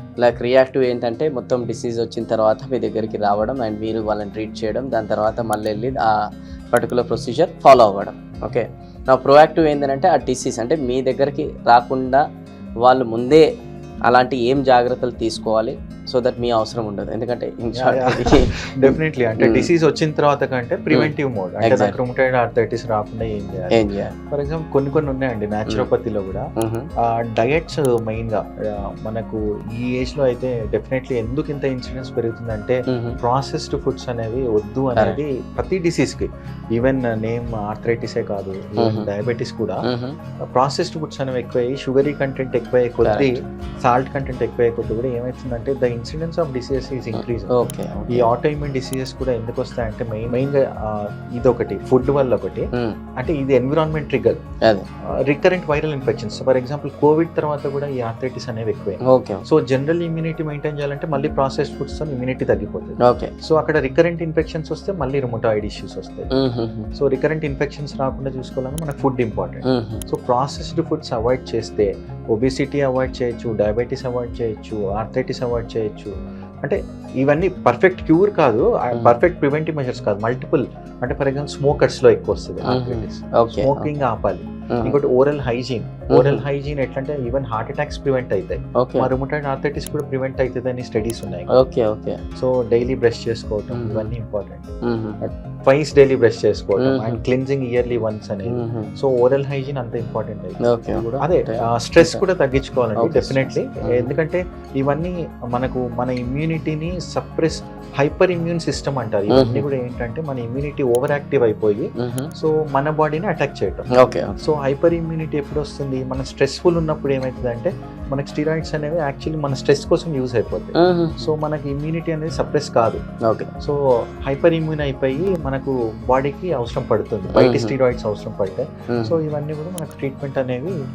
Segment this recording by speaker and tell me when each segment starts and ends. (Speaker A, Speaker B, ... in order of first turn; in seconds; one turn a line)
Speaker A: 0.2-6.1
Speaker A: 6.7-12.2
Speaker A: 12.8-13.4
Speaker A: 14.1-19.7
Speaker B: 17.8-26.4
Speaker A: 21.7-21.9
Speaker A: 23.7-24.1
Speaker A: 26.6-26.9
Speaker B: 27.0-39.8
Speaker A: 32.9-33.2
Speaker A: 38.8-39.1
Speaker A: 39.9-40.2
Speaker B: 40.5-47.5
Speaker A: 43.0-43.4
Speaker A: 47.1-48.3
Speaker B: 48.1-52.7
Speaker A: 52.7-53.0
Speaker B: 53.2-54.4
Speaker B: 55.2-66.3
Speaker A: 59.1-59.4
Speaker A: 63.0-63.3
Speaker A: 66.3-66.9
Speaker B: 67.0-76.1
Speaker A: 69.7-70.0
Speaker B: 76.6-91.5
Speaker A: 78.9-79.2
Speaker A: 82.7-83.9
Speaker A: 86.1-86.4
Speaker A: 88.8-89.1
Speaker A: 91.5-92.2
Speaker B: 92.4-94.7
Speaker A: 93.8-94.1
Speaker A: 94.8-95.2
Speaker B: 95.7-113.9
Speaker A: 96.8-97.2
Speaker A: 98.5-98.9
Speaker A: 100.6-102.2
Speaker A: 103.0-104.1
Speaker A: 109.3-109.7
Speaker A: 112.0-112.3
Speaker A: 114.0-114.4
Speaker B: 114.4-123.0
Speaker A: 120.8-121.3
Speaker A: 123.2-123.5
Speaker B: 123.6-130.8
Speaker A: 127.3-127.7
Speaker A: 128.9-129.2